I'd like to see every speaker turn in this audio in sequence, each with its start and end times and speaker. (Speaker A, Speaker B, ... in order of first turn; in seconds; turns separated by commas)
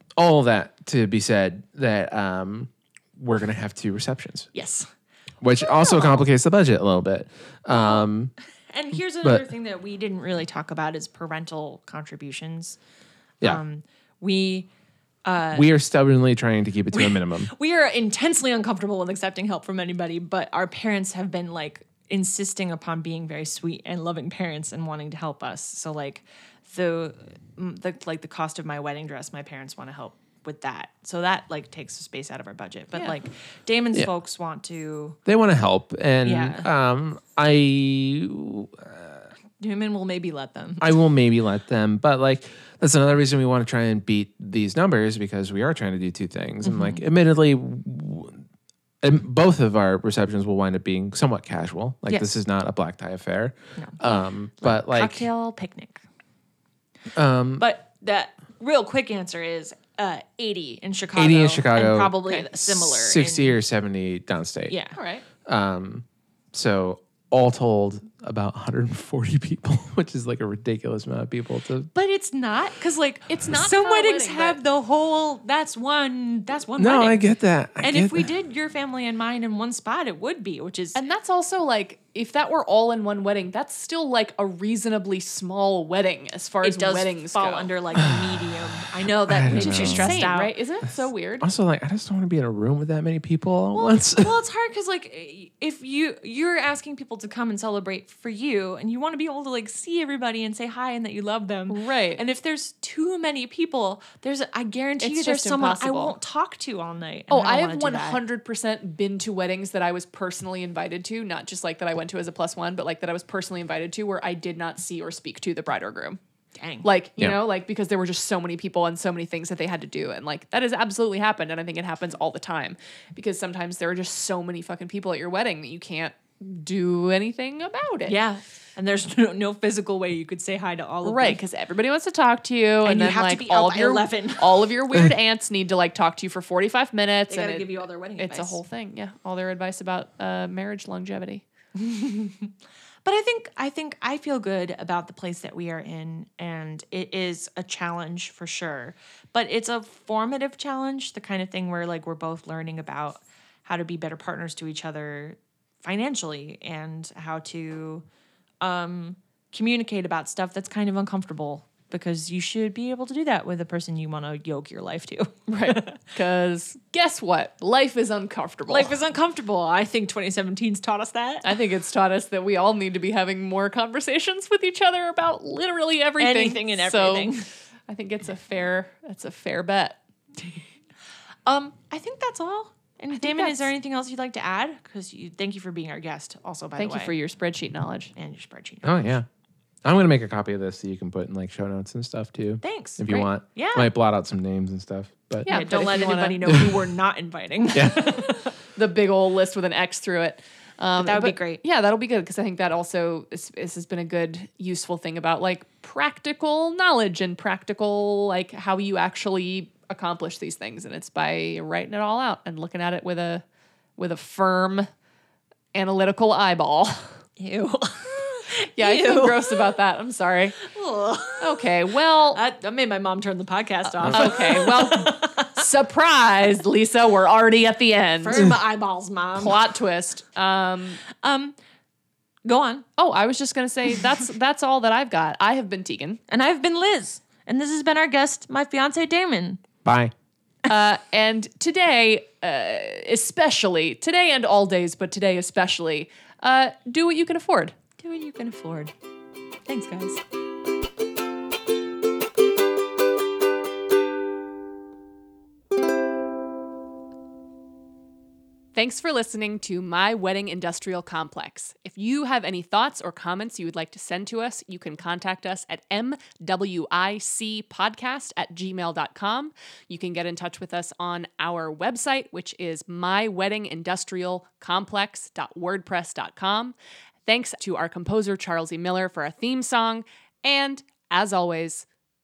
Speaker A: 0.2-4.5, Speaker B: 4.5-4.9, Speaker A: 5.4-8.3, Speaker B: 5.6-6.2, Speaker B: 7.7-8.1, Speaker B: 8.7-12.8, Speaker A: 9.2-9.5, Speaker B: 13.4-14.7, Speaker B: 15.2-15.7, Speaker A: 15.5-17.5, Speaker B: 16.9-35.2, Speaker A: 35.2-39.3, Speaker B: 36.2-36.7, Speaker B: 39.6-41.0, Speaker A: 40.8-48.4, Speaker B: 46.6-47.0, Speaker A: 49.0-55.3, Speaker B: 53.8-56.0, Speaker A: 57.1-57.7, Speaker B: 57.6-63.5, Speaker A: 61.1-64.7, Speaker B: 64.7-65.0, Speaker C: 64.9-65.2, Speaker A: 65.4-71.9, Speaker B: 71.9-81.0, Speaker C: 73.3-74.6, Speaker A: 76.8-78.3, Speaker C: 80.9-87.7, Speaker B: 86.6-90.5, Speaker A: 88.0-88.4, Speaker A: 89.3-90.2, Speaker C: 89.5-91.5, Speaker A: 90.8-94.3, Speaker B: 93.7-108.2, Speaker C: 101.7-102.2, Speaker C: 105.0-106.2, Speaker C: 107.3-116.2, Speaker B: 116.5-116.9, Speaker C: 116.8-128.2, Speaker B: 128.1-131.4, Speaker C: 131.0-141.4, Speaker B: 132.8-134.7, Speaker B: 137.3-138.6, Speaker B: 141.8-142.5, Speaker B: 143.0-158.0, Speaker B: 158.6-166.1, Speaker C: 165.5-169.0, Speaker B: 168.7-171.5, Speaker C: 171.4-177.3, Speaker B: 176.2-177.5, Speaker C: 177.9-180.0, Speaker B: 181.4-187.1, Speaker C: 183.1-183.7, Speaker C: 186.8-188.1, Speaker B: 188.2-189.0, Speaker A: 188.8-189.2, Speaker A: 189.8-195.6, Speaker B: 192.6-193.9, Speaker C: 195.4-196.4, Speaker B: 195.5-198.5, Speaker A: 197.7-198.0, Speaker C: 198.8-213.4, Speaker B: 201.0-201.6, Speaker C: 214.0-214.9, Speaker C: 215.7-217.1, Speaker B: 217.4-219.7, Speaker C: 218.7-220.6, Speaker B: 220.6-225.6, Speaker C: 221.4-222.4, Speaker C: 223.8-228.5, Speaker B: 228.2-229.6, Speaker C: 229.3-231.0, Speaker B: 231.2-231.5, Speaker B: 232.4-232.8, Speaker C: 233.0-236.2, Speaker B: 236.3-239.6, Speaker A: 239.8-240.1, Speaker C: 240.7-247.8, Speaker B: 248.0-248.9, Speaker B: 249.7-250.2, Speaker C: 258.7-281.9